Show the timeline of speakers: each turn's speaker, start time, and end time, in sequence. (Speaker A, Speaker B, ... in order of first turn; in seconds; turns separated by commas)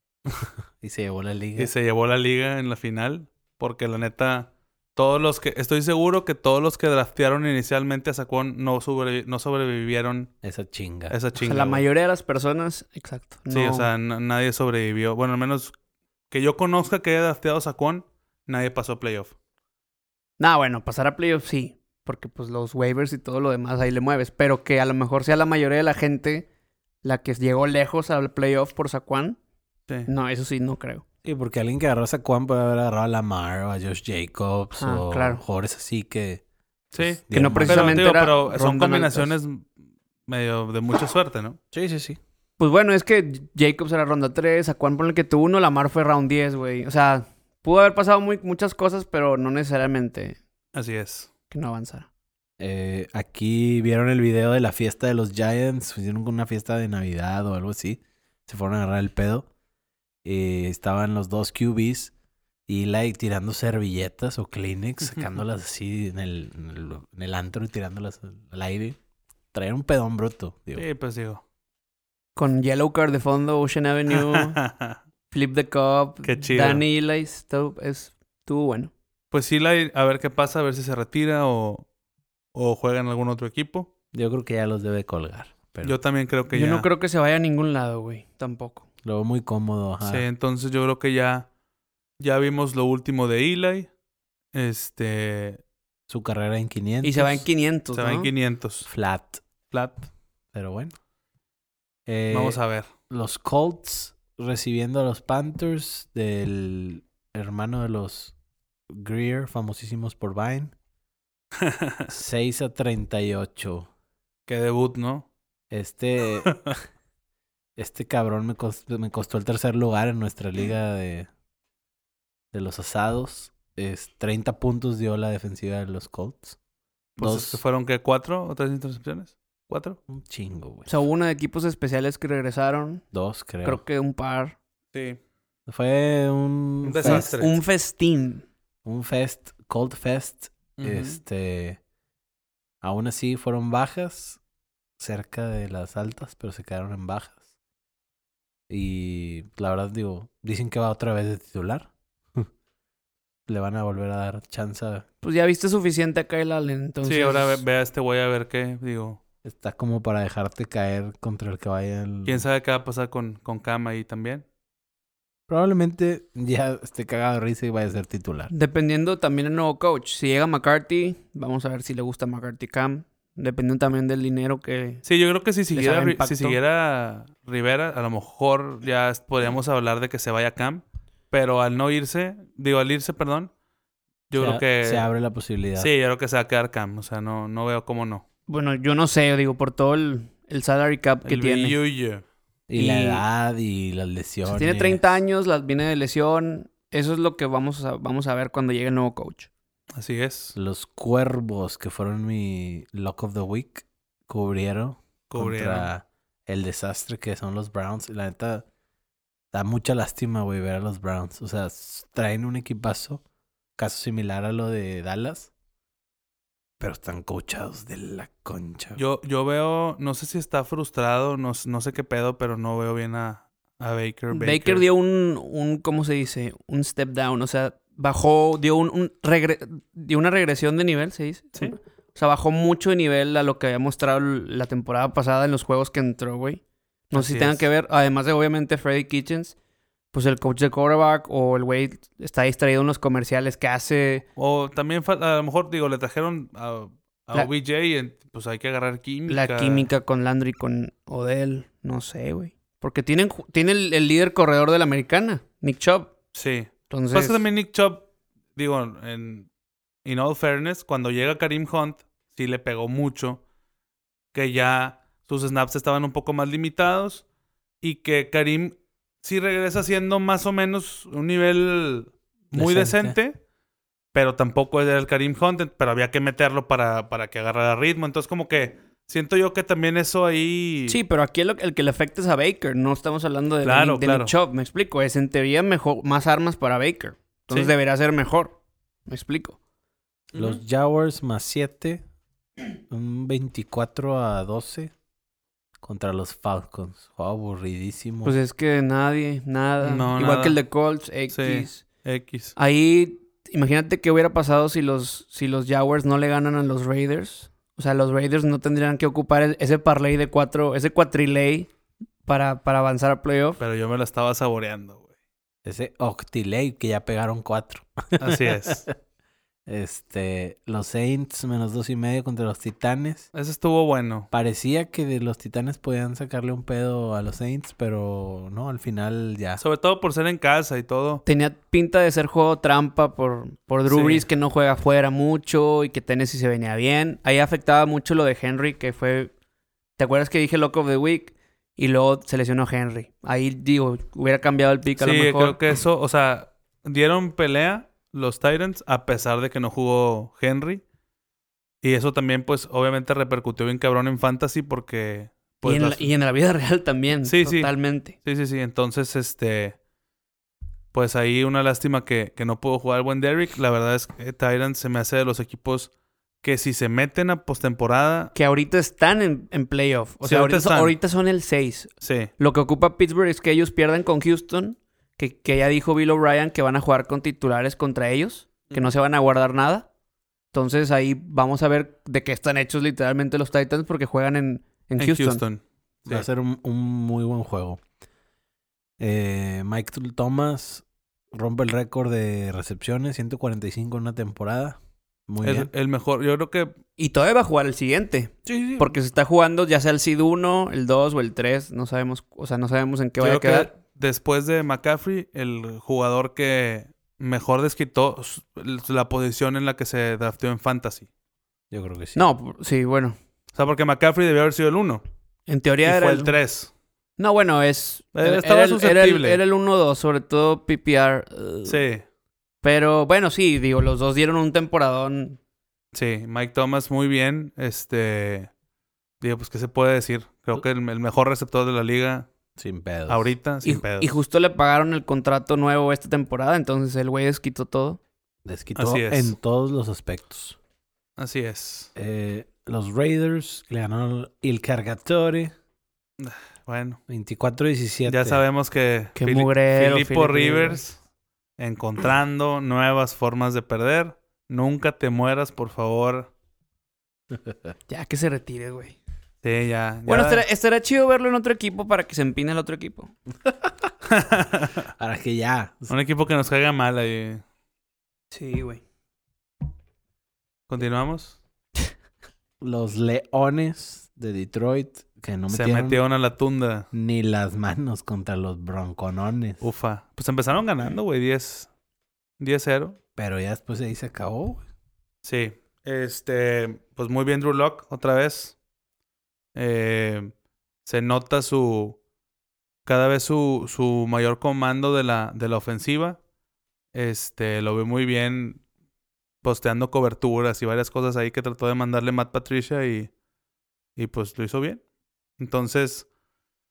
Speaker A: 0.8-1.7, Speaker B: 1.6-10.3, Speaker A: 10.4-11.2, Speaker B: 11.1-11.8, Speaker C: 11.4-13.9, Speaker B: 13.5-15.7, Speaker B: 16.3-19.3, Speaker C: 20.4-26.5, Speaker C: 27.0-29.4, Speaker C: 30.1-31.0, Speaker A: 31.2-36.4, Speaker C: 34.8-35.4, Speaker B: 36.9-39.7, Speaker A: 37.0-38.1, Speaker C: 37.3-39.3, Speaker B: 40.3-41.6, Speaker A: 41.7-42.2, Speaker C: 42.6-50.4, Speaker B: 50.7-51.3, Speaker C: 51.5-52.1, Speaker A: 52.6-59.5, Speaker A: 60.2-62.1, Speaker A: 62.7-69.0, Speaker A: 69.5-70.8, Speaker B: 70.8-71.4, Speaker C: 72.3-74.6, Speaker B: 74.1-75.0, Speaker C: 75.3-78.9, Speaker B: 76.2-76.8, Speaker B: 79.3-81.8, Speaker B: 82.5-83.9, Speaker A: 84.1-86.0, Speaker B: 85.8-86.8, Speaker C: 86.5-88.8, Speaker A: 89.0-90.3, Speaker B: 90.0-91.5, Speaker B: 92.2-93.9, Speaker B: 94.5-95.6, Speaker A: 96.1-97.4, Speaker C: 97.0-98.3, Speaker B: 97.9-98.9, Speaker A: 98.8-99.4, Speaker B: 99.7-100.1, Speaker A: 100.5-100.9, Speaker A: 102.0-108.3, Speaker B: 102.3-102.9, Speaker A: 108.9-110.7, Speaker B: 111.6-112.1, Speaker A: 112.1-113.9, Speaker B: 114.5-115.2, Speaker A: 115.7-116.8, Speaker A: 117.8-121.3, Speaker A: 122.5-126.6, Speaker B: 127.2-130.0, Speaker A: 127.2-127.6, Speaker A: 130.1-130.9, Speaker C: 130.9-133.0, Speaker A: 133.1-133.8, Speaker C: 133.6-134.6, Speaker B: 134.9-135.2, Speaker A: 135.7-137.3, Speaker B: 136.8-137.6, Speaker C: 137.0-138.4, Speaker A: 138.8-141.8, Speaker B: 140.8-141.2, Speaker A: 142.8-144.4, Speaker A: 145.0-147.4, Speaker A: 148.7-152.5, Speaker A: 153.5-155.0, Speaker C: 155.2-157.6, Speaker B: 157.0-159.2, Speaker A: 159.4-162.4, Speaker B: 162.2-164.4, Speaker A: 165.5-168.5, Speaker C: 168.5-175.0, Speaker B: 175.0-183.5, Speaker C: 175.7-176.6, Speaker B: 184.3-185.1, Speaker A: 184.4-185.9, Speaker B: 185.8-188.2, Speaker C: 188.5-191.8, Speaker B: 191.2-192.2, Speaker A: 192.7-195.2, Speaker C: 192.7-193.2, Speaker C: 194.5-199.5, Speaker B: 199.9-200.5, Speaker A: 200.6-208.6, Speaker B: 205.3-205.9, Speaker A: 209.5-213.2, Speaker A: 213.8-215.5, Speaker A: 216.8-219.0, Speaker B: 218.9-224.8, Speaker C: 224.3-239.5, Speaker B: 237.1-237.7, Speaker C: 240.1-244.2, Speaker B: 244.3-249.9, Speaker C: 249.3-256.1, Speaker B: 256.3-259.5, Speaker C: 256.9-257.4, Speaker B: 260.0-263.4, Speaker B: 264.3-267.2, Speaker B: 267.8-273.4, Speaker A: 272.5-273.2, Speaker B: 274.1-281.0, Speaker C: 280.9-289.6, Speaker B: 283.6-284.3, Speaker B: 290.3-290.6, Speaker A: 290.3-292.0, Speaker A: 292.9-294.9, Speaker A: 295.8-298.4, Speaker C: 298.2-301.8, Speaker B: 299.8-300.6, Speaker B: 301.3-302.5, Speaker C: 302.6-311.7, Speaker C: 312.2-313.6, Speaker B: 313.6-315.1, Speaker A: 315.6-318.9, Speaker B: 318.2-318.8, Speaker A: 319.7-323.3, Speaker B: 323.3-324.3, Speaker A: 324.3-329.6, Speaker B: 329.6-331.2, Speaker C: 331.2-339.3, Speaker B: 333.9-334.2, Speaker C: 340.0-345.6, Speaker B: 345.0-350.8, Speaker B: 351.8-356.1, Speaker C: 355.6-358.1, Speaker B: 357.2-359.8, Speaker B: 360.9-365.9, Speaker B: 366.4-368.3, Speaker C: 368.3-379.9, Speaker B: 370.2-370.9, Speaker B: 372.0-372.3, Speaker C: 380.5-385.4, Speaker B: 385.0-386.2, Speaker A: 386.1-387.8, Speaker A: 389.0-395.7, Speaker B: 395.4-396.7, Speaker C: 397.0-403.7, Speaker A: 398.4-398.9, Speaker B: 403.2-411.1, Speaker A: 411.7-412.2, Speaker C: 412.1-413.1, Speaker B: 413.5-415.0, Speaker C: 415.5-416.3, Speaker B: 415.8-416.7, Speaker C: 417.2-421.8, Speaker B: 418.1-419.4, Speaker B: 421.6-422.0, Speaker C: 422.6-425.4, Speaker B: 425.9-428.5, Speaker B: 429.2-432.3, Speaker A: 432.6-433.3, Speaker B: 433.1-434.1, Speaker C: 433.6-438.0, Speaker A: 438.4-440.6, Speaker B: 438.8-439.3, Speaker B: 441.2-441.9, Speaker A: 441.9-445.5, Speaker B: 446.2-447.0, Speaker A: 447.1-448.4, Speaker B: 448.1-451.0, Speaker C: 449.1-450.8, Speaker B: 451.6-456.3, Speaker C: 457.9-459.0, Speaker B: 459.4-460.4, Speaker C: 460.1-463.1, Speaker A: 463.6-463.9, Speaker B: 464.0-464.9, Speaker A: 465.0-465.9, Speaker B: 465.9-467.4, Speaker C: 468.3-468.8, Speaker B: 470.7-471.4, Speaker A: 472.6-476.0, Speaker B: 475.5-476.9, Speaker A: 476.9-479.6, Speaker B: 479.6-481.7, Speaker B: 482.4-483.0, Speaker A: 483.1-484.6, Speaker B: 485.2-488.5, Speaker B: 489.5-490.3, Speaker B: 490.9-492.0, Speaker B: 492.9-496.2, Speaker B: 496.9-498.6, Speaker B: 499.4-503.1, Speaker B: 504.0-504.8, Speaker B: 505.4-506.1